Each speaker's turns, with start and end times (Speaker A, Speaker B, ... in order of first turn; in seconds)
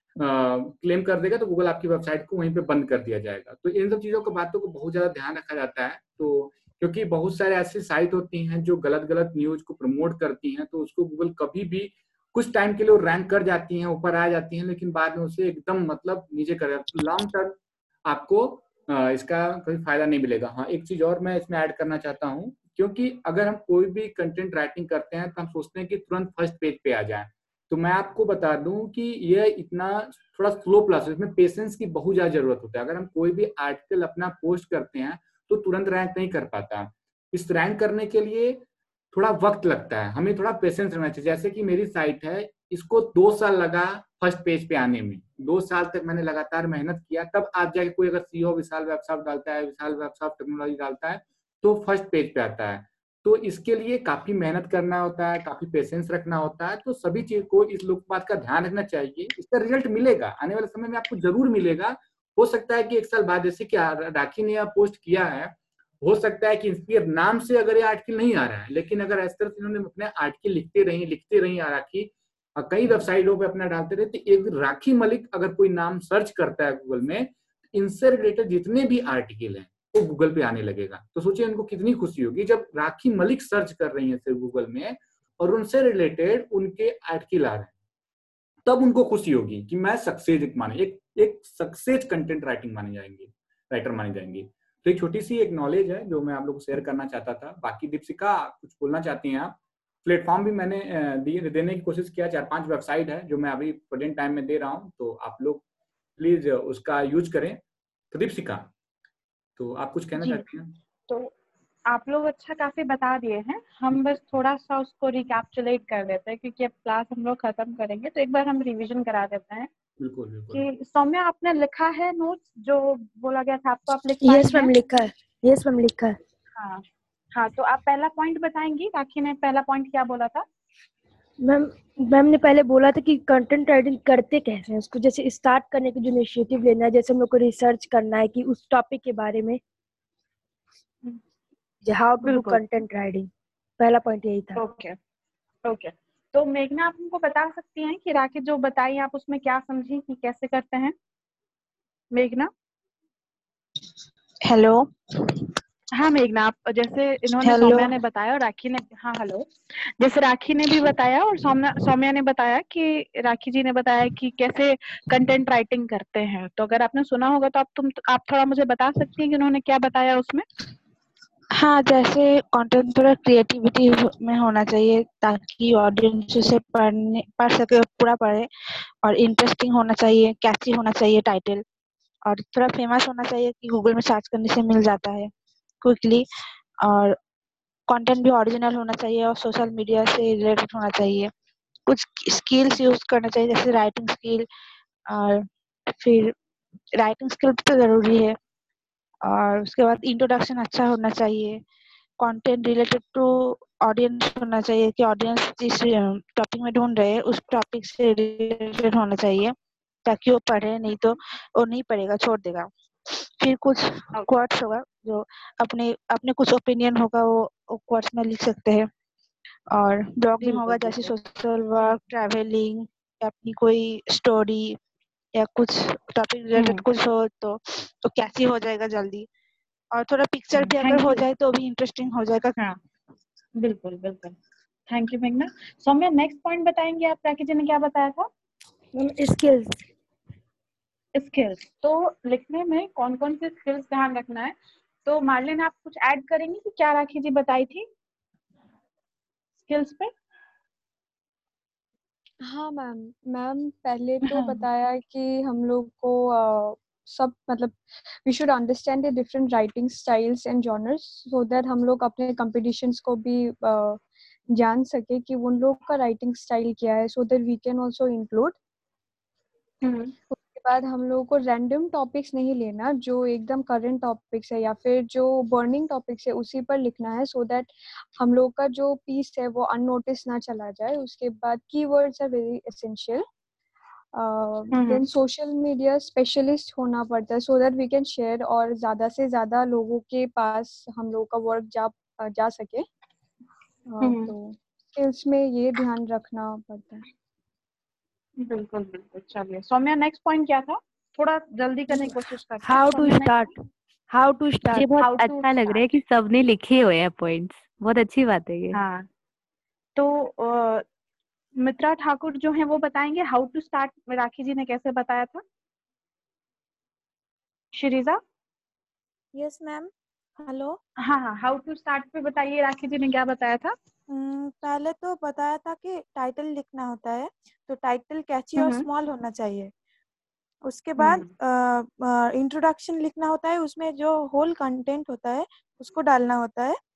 Speaker A: 0.2-87.7, 88.6-105.6, 106.2-108.7, 109.6-110.7, 120.0-120.7
Speaker B: 110.2-110.4, 111.9-119.7, 120.5-124.7, 126.5-130.4, 142.2-142.6, 144.6-145.0, 145.6-150.9, 152.1-152.5, 155.9-159.5, 160.0-170.4, 220.4-221.1, 226.5-226.8, 230.5-231.2, 233.6-234.3, 234.9-238.3, 241.2-247.8, 249.6-250.1, 254.3-254.6, 269.8-270.1, 284.7-285.0, 294.0-294.3, 298.4-303.5, 305.0-305.8, 308.7-309.1, 309.9-310.8, 311.6-315.4, 317.7-318.2, 321.0-323.8, 328.6-328.9, 331.0-331.3
Speaker C: 124.2-126.2, 131.4-139.6, 141.8-144.6, 238.9-239.8, 302.6-303.5, 304.1-304.9
Speaker D: 154.4-155.5, 157.4-157.9, 171.5-178.5, 179.0-181.6, 182.2-185.3, 185.8-186.2, 186.8-187.2, 187.9-191.3, 191.9-194.4, 195.1-196.3, 196.9-198.3, 199.2-201.6, 202.2-209.5, 210.1-218.9, 219.7-224.8, 225.3-229.3, 229.9-232.5
Speaker E: 252.4-268.6, 270.3-283.2, 284.1-292.9, 293.9-297.0
Speaker F: 304.7-308.8
Speaker G: 319.3-320.8, 324.1-329.7, 330.6-336.8